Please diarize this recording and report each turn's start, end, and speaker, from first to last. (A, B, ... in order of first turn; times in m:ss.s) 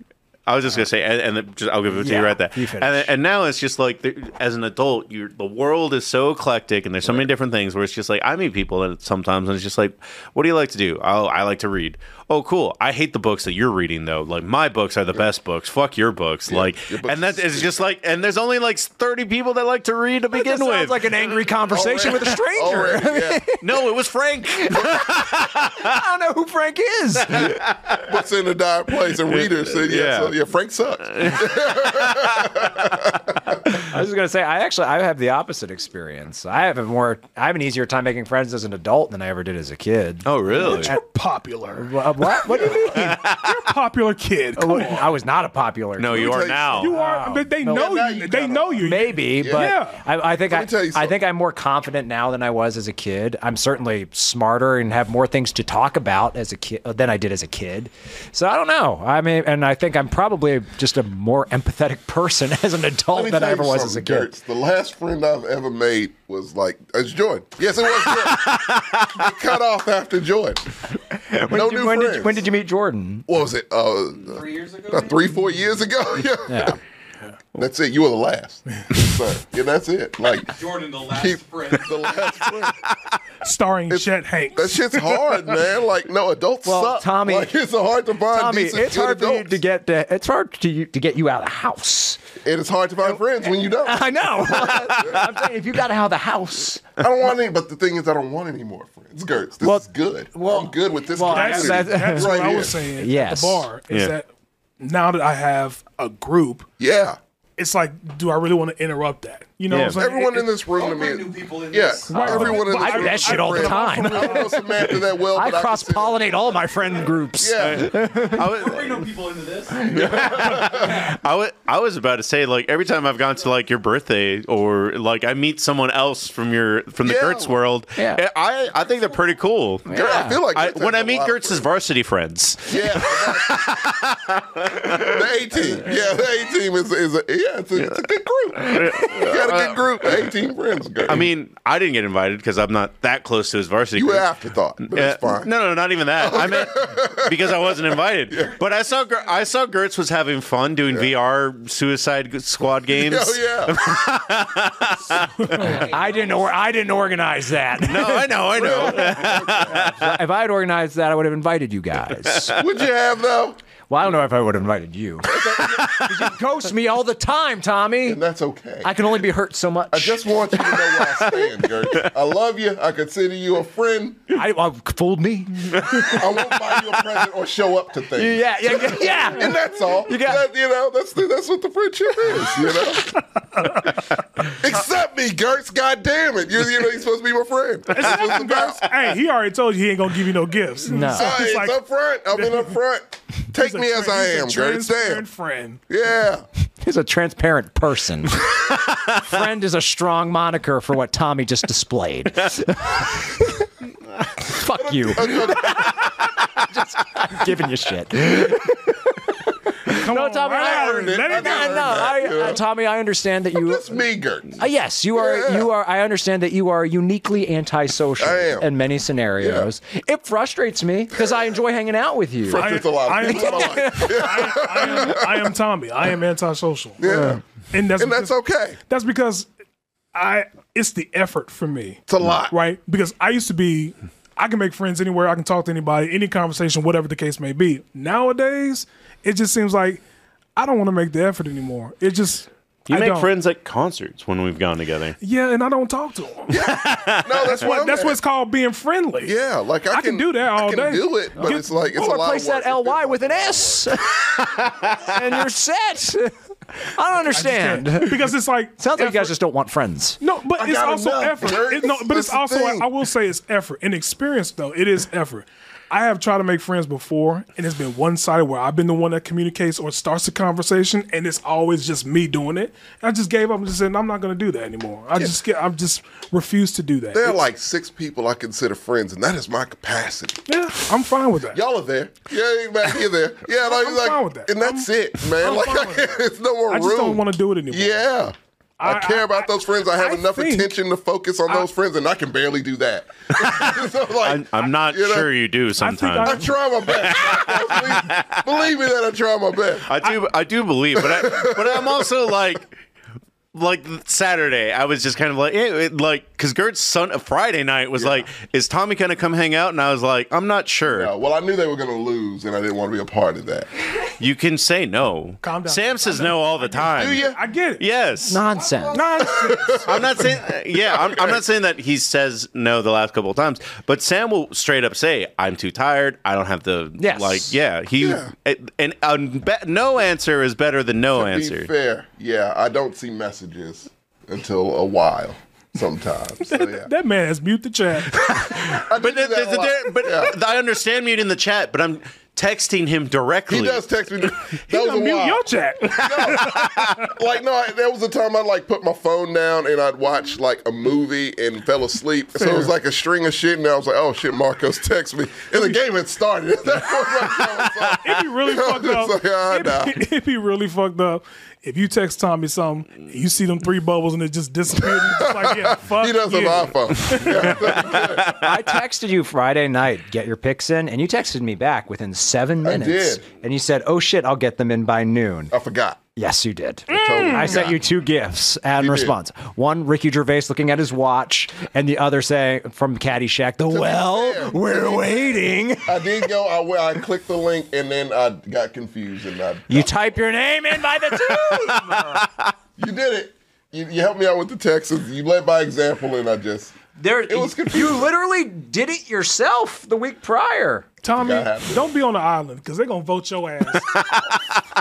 0:00.5-0:21.4 A
0:01.9-0:03.1 B
0:16.5-0:17.8 C
0:20.3-0:23.8 B
0:21.7-0:23.5 C
0:23.6-0:26.0 A
0:24.6-0:27.6 B
0:27.3-0:28.1 A
0:28.1-0:33.6 C
0:29.0-0:30.3 A
0:31.0-0:32.5 A
0:33.7-0:41.0 B
0:40.2-0:40.9 A
0:40.5-0:41.9 D
0:41.8-0:43.2 B
0:42.6-0:43.6 A
0:43.3-0:45.1 D
0:44.6-0:47.8 B
0:46.0-0:46.9 A
0:46.1-0:46.9 C
0:46.8-0:50.0 D
0:47.6-0:49.7 C
0:48.8-1:04.3 B
0:50.4-0:51.2 C
1:03.1-1:10.6 C
1:07.9-1:09.2 A
1:11.1-1:13.3 B
1:11.5-1:12.4 C
1:13.3-1:16.8 C
1:14.2-1:15.3 E
1:16.2-1:16.8 B
1:17.6-1:22.8 C
1:20.5-1:22.1 E
1:23.4-1:25.7 D
1:23.9-1:29.6 C
1:26.6-1:27.5 B
1:28.3-1:32.2 B
1:32.4-1:35.2 C
1:33.0-1:36.8 B
1:34.7-1:35.3 A
1:37.0-1:42.8 C
1:39.6-1:43.7 B
1:41.2-1:44.3 D
1:44.8-1:46.7 D
1:46.8-1:47.2 C
1:47.6-1:50.5 D
1:49.7-1:50.0 A
1:49.9-1:56.4 C
1:50.7-1:52.7 E
1:52.1-1:54.6 D
1:52.2-1:58.6 B
1:57.4-1:58.0 C
1:57.6-1:59.1 A
1:58.5-2:00.2 E
1:59.8-2:09.9 A
1:59.9-2:01.1 C
2:07.0-2:07.6 C
2:08.0-2:08.2 B
2:08.8-2:09.3 E
2:09.8-2:10.4 B
2:09.9-2:11.6 C
2:10.5-2:15.1 A
2:12.7-2:13.7 C
2:14.8-2:21.3 C
2:18.6-2:20.2 A
2:21.0-2:24.3 A
2:24.0-2:25.5 C
2:24.9-2:35.8 A
2:26.2-2:28.5 C
2:28.5-2:29.3 E
2:33.0-2:33.9 C
2:35.1-2:36.5 E
2:35.6-2:42.5 B
2:37.8-2:40.2 A
2:38.5-2:40.0 C
2:42.2-2:42.5 A
2:42.5-2:43.6 C
2:43.9-2:48.2 B
2:45.3-2:46.0 C
2:45.6-2:46.3 A
2:48.0-2:48.9 C
2:48.8-2:51.8 B
2:49.9-2:54.4 C
2:54.3-2:56.7 B
2:56.0-3:03.1 C
2:58.1-3:00.4 B
3:03.6-3:03.9 D
3:04.4-3:08.8 C
3:07.9-3:11.8 D
3:10.9-3:11.4 B
3:11.1-3:15.2 C
3:12.3-3:12.7 D
3:13.5-3:15.8 D
3:15.9-3:16.4 C
3:16.8-3:23.7 B
3:24.4-3:29.1 B
3:24.7-3:26.1 C
3:29.8-3:34.0 B
3:29.9-3:32.1 D
3:30.7-3:32.6 C
3:33.5-3:34.6 C
3:34.6-3:45.1 B
3:35.1-3:35.7 C
3:38.2-3:38.7 C
3:39.4-3:39.7 C
3:42.5-3:45.4 C
3:42.5-3:48.4 D
3:47.0-3:48.8 C
3:48.9-3:49.5 D
3:50.1-4:00.0 D
3:52.1-3:52.5 C
4:00.6-4:03.3 D
4:02.9-4:05.2 A
4:05.2-4:06.6 D
4:06.5-4:08.2 C
4:06.6-4:07.5 A
4:07.5-4:09.3 D
4:09.2-4:13.8 C
4:09.9-4:11.6 D
4:11.4-4:20.2 B
4:14.4-4:15.1 A
4:17.3-4:19.3 D
4:20.2-4:37.4 D
4:20.6-4:22.9 C
4:37.1-4:40.5 C
4:40.5-4:41.6 D
4:41.5-4:55.3 C
4:43.6-4:48.0 D
4:48.8-4:50.7 D
4:53.4-4:58.6 A
4:55.8-4:56.6 D
4:56.2-5:00.0 C
4:59.8-5:02.7 A
5:00.9-5:02.1 C
5:03.5-5:11.1 A
5:08.0-5:08.3 C
5:10.9-5:13.7 C
5:14.2-5:17.2 A
5:15.4-5:17.8 D
5:17.0-5:17.4 C
5:17.8-5:18.4 A
5:18.3-5:19.0 B
5:18.5-5:20.1 E
5:18.9-5:20.0 D
5:19.4-5:21.4 C
5:19.8-5:31.7 A
5:27.0-5:27.6 B
5:28.0-5:28.3 C
5:31.1-5:36.9 C
5:36.4-5:38.8 D
5:38.1-5:43.8 A
5:38.3-5:40.3 C
5:43.5-6:00.0 C
5:44.7-5:47.1 D
5:46.2-5:46.9 A
5:52.4-5:52.7 D
5:58.0-6:07.6 D
6:04.8-6:08.4 C
6:07.5-6:08.5 A
6:08.3-6:15.5 B
6:12.6-6:13.2 C
6:15.5-6:16.0 C
6:16.2-6:26.3 B
6:16.9-6:17.8 C
6:16.9-6:17.6 D
6:18.8-6:19.1 C
6:23.7-6:30.0 C
6:29.7-6:32.3 B
6:31.3-6:32.5 A
6:32.8-6:38.1 C
6:37.0-6:40.8 B
6:41.0-6:44.0 D
6:41.2-6:41.9 C
6:43.8-6:44.6 A